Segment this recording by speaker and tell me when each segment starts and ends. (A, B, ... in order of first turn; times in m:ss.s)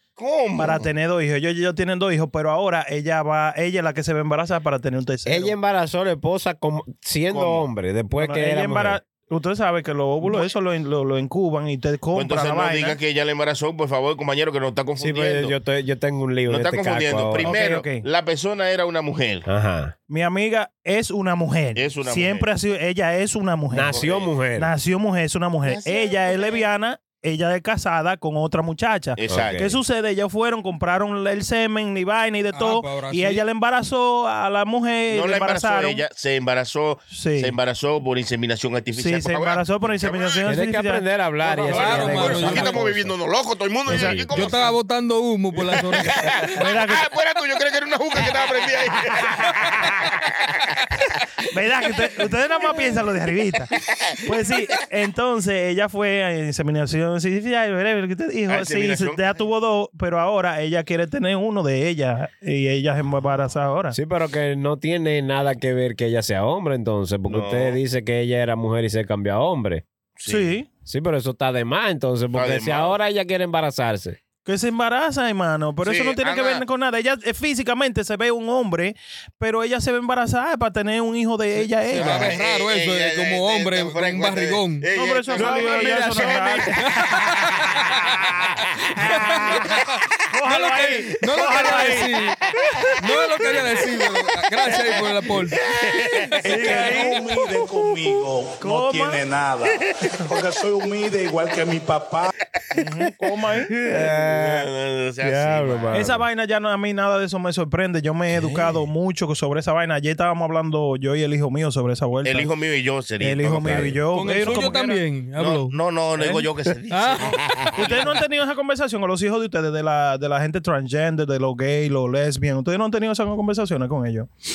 0:00.2-0:00.9 A
0:00.6-0:05.6 B
0:05.2-0:09.0 C
0:07.3-0:07.6 A
0:08.1-0:13.0 B
0:12.1-0:15.6 A
0:15.0-0:17.5 C
0:16.5-0:19.5 A
0:17.4-0:18.0 B
0:19.5-0:19.9 C
0:20.1-0:24.0 B
0:21.8-0:22.5 A
0:23.7-0:24.7 C
0:23.9-0:24.3 A
0:24.6-0:36.0 B
0:25.6-0:26.6 A
0:29.2-0:29.7 A
0:29.3-0:29.8 C
0:32.5-0:33.4 D
0:35.1-0:40.5 A
0:37.1-0:37.6 B
0:39.0-0:41.1 B
0:40.4-0:43.2 C
0:41.5-0:44.8 A
0:41.6-0:42.8 D
0:43.9-0:44.3 B
0:43.9-0:44.1 C
0:44.3-0:46.5 D
0:45.6-0:50.9 A
0:46.6-0:47.0 B
0:51.5-0:53.7 B
0:53.7-0:54.3 A
0:54.2-1:04.0 B
0:58.5-0:59.2 A
1:03.9-1:09.8 C
1:07.3-1:07.8 A
1:10.2-1:10.6 A
1:10.3-1:10.7 B
1:10.9-1:14.2 C
1:12.3-1:12.9 A
1:14.5-1:22.3 B
1:15.8-1:16.6 A
1:21.9-1:26.4 A
1:21.9-1:24.9 D
1:25.0-1:26.8 B
1:25.3-1:27.0 C
1:26.9-1:27.6 D
1:27.6-1:28.0 A
1:29.0-1:32.1 B
1:29.3-1:29.8 D
1:30.5-1:32.4 D
1:31.5-1:31.9 C
1:33.0-1:35.6 D
1:35.5-1:36.9 A
1:35.8-1:36.1 C
1:36.4-1:42.3 E
1:36.4-1:37.2 B
1:38.6-1:39.2 B
1:42.8-1:43.7 B
1:43.7-1:46.2 A
1:43.9-1:44.7 C
1:45.2-1:46.2 C
1:45.9-1:52.5 B
1:48.4-1:48.8 A
1:52.2-1:54.8 A
1:53.2-1:55.0 B
1:54.1-1:55.7 D
1:55.4-1:58.1 A
1:56.2-1:56.5 B
1:56.9-1:57.4 D
1:57.8-2:04.3 B